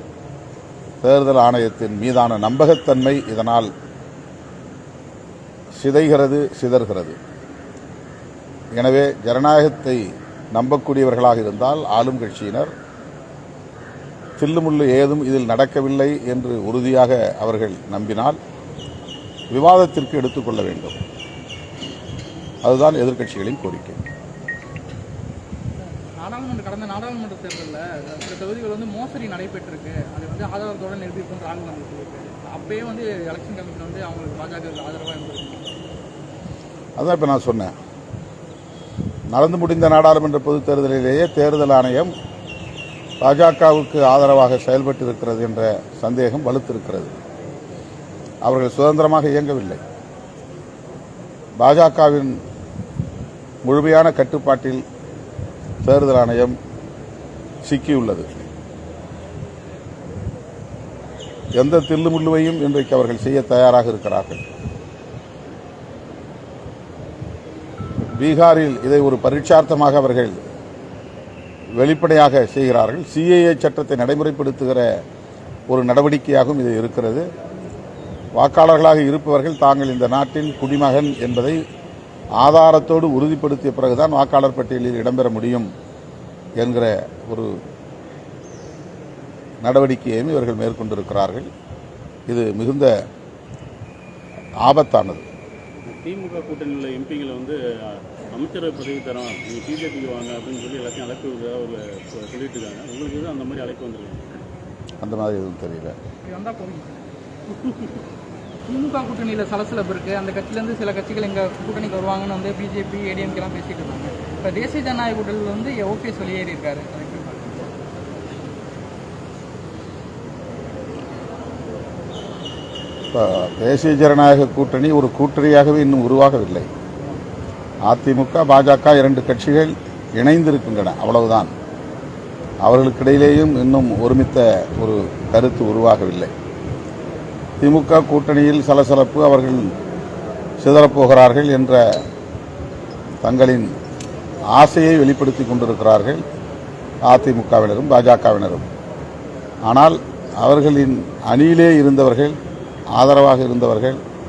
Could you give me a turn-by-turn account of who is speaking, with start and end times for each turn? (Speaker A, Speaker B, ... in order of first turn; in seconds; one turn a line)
Speaker A: 1.0-3.7
Speaker A: 5.7-7.2
Speaker A: 8.7-12.7
Speaker A: 14.4-18.4
Speaker A: 19.5-21.0
Speaker A: 22.6-24.0
Speaker B: 25.8-35.7
Speaker A: 37.0-37.7
Speaker A: 39.3-42.1
Speaker A: 43.2-47.1
Speaker A: 48.4-49.8
Speaker A: 51.6-52.4
Speaker A: 53.6-54.8
Speaker A: 55.8-56.5
Speaker A: 57.6-58.4
Speaker A: 61.5-64.4
Speaker A: 68.2-70.4
Speaker A: 71.8-74.9
Speaker A: 75.7-77.2
Speaker A: 78.3-81.6
Speaker A: 82.4-85.7
Speaker A: 86.6-87.5
Speaker A: 89.6-91.5
Speaker A: 92.3-92.9
Speaker A: 94.6-95.2
Speaker C: 95.9-104.4
Speaker A: 105.0-106.0
Speaker B: 106.2-107.1
Speaker B: 108.7-117.7
Speaker A: 123.1-126.7
Speaker A: 127.9-131.5
Speaker A: 132.6-136.3
Speaker A: 137.6-139.7
Speaker A: 140.6-142.0
Speaker A: 143.2-143.7
Speaker A: 144.5-146.2
Speaker A: 147.0-148.7
Speaker A: 149.7-152.4
Speaker A: 152.9-154.0